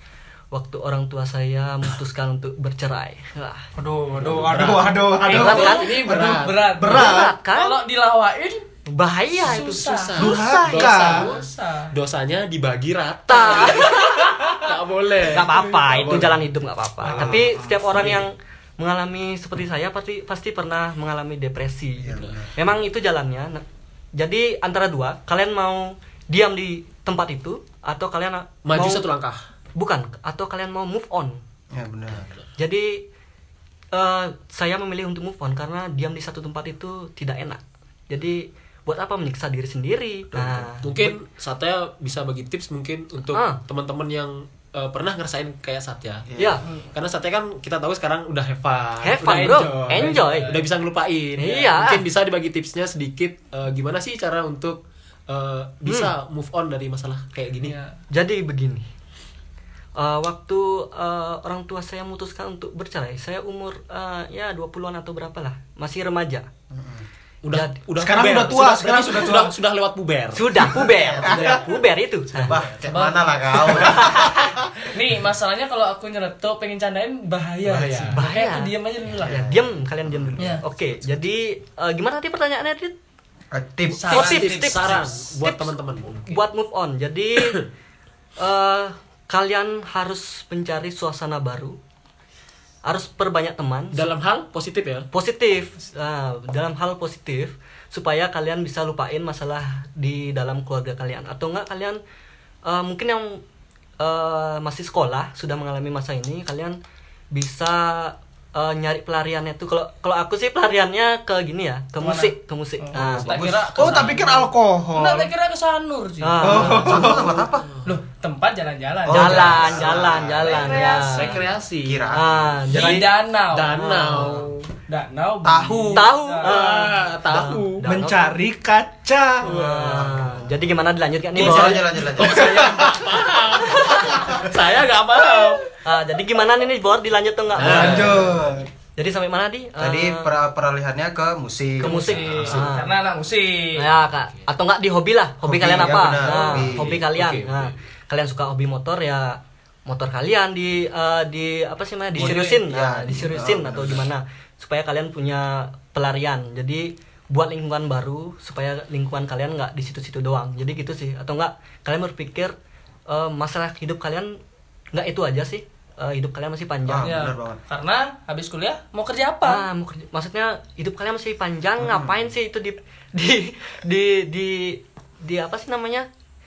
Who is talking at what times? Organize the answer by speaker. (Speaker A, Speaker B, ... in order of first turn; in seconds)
Speaker A: 0.5-3.6, 5.3-6.0, 6.9-7.8, 8.9-11.1, 13.3-14.6, 15.2-29.0, 29.7-31.4, 32.6-33.0, 33.9-41.2, 43.3-43.6, 46.4-46.6, 49.0-50.5, 51.4-52.0, 55.9-56.1, 58.1-58.8, 60.0-66.5, 67.5-67.8, 70.3-72.6, 73.8-74.5, 78.1-82.9, 84.0-85.7, 86.2-87.6, 88.4-91.8, 92.8-94.0, 95.1-102.0, 102.6-103.4, 104.0-106.8, 107.3-113.5, 116.2-117.2, 119.1-121.4, 122.1-123.1, 123.8-124.5, 125.9-128.4, 129.4-132.0, 133.7-134.3, 135.8-138.3, 138.9-140.3, 141.8-142.9, 143.7-162.6, 163.1-164.4, 164.9-167.2, 169.4-176.1
Speaker B: 3.8-7.3, 10.2-11.3, 17.0-18.1, 68.0-69.6, 113.8-114.4, 116.4-117.5, 127.8-129.5, 132.2-133.1, 137.6-138.7
Speaker C: 4.2-6.8, 9.4-16.5, 17.9-18.3, 22.1-22.4, 28.6-29.4, 40.8-46.3, 46.9-57.8, 67.4-72.8, 77.6-78.3, 84.1-86.4, 93.9-95.1, 113.8-114.2, 117.6-117.9, 120.6-122.1, 122.7-124.7, 126.4-127.9, 129.4-130.2, 131.3-135.6, 137.5-138.3, 141.8-142.8, 146.2-147.8
Speaker D: 5.2-8.7, 9.4-10.3, 11.0-11.9, 13.6-13.9, 49.2-50.6, 57.6-58.0, 72.8-74.1, 74.8-79.3, 80.4-80.6, 83.9-85.0, 112.0-116.9, 117.8-119.9, 120.5-121.3, 122.7-124.0, 124.9-126.6, 141.8-143.9, 152.1-152.6, 167.0-169.7
Speaker E: 17.1-17.5, 22.0-22.6, 31.7-32.3, 40.3-40.8, 46.3-46.6, 66.7-67.0, 70.9-71.6, 72.4-74.4, 79.1-80.6, 83.5-84.1, 112.9-115.3, 116.4-117.7, 119.0-120.9, 121.8-122.7, 125.4-126.1, 129.8-130.6, 131.3-132.8, 137.6-138.6, 139.8-142.5, 145.4-147.0, 152.2-154.1, 166.8-167.6, 171.8-172.2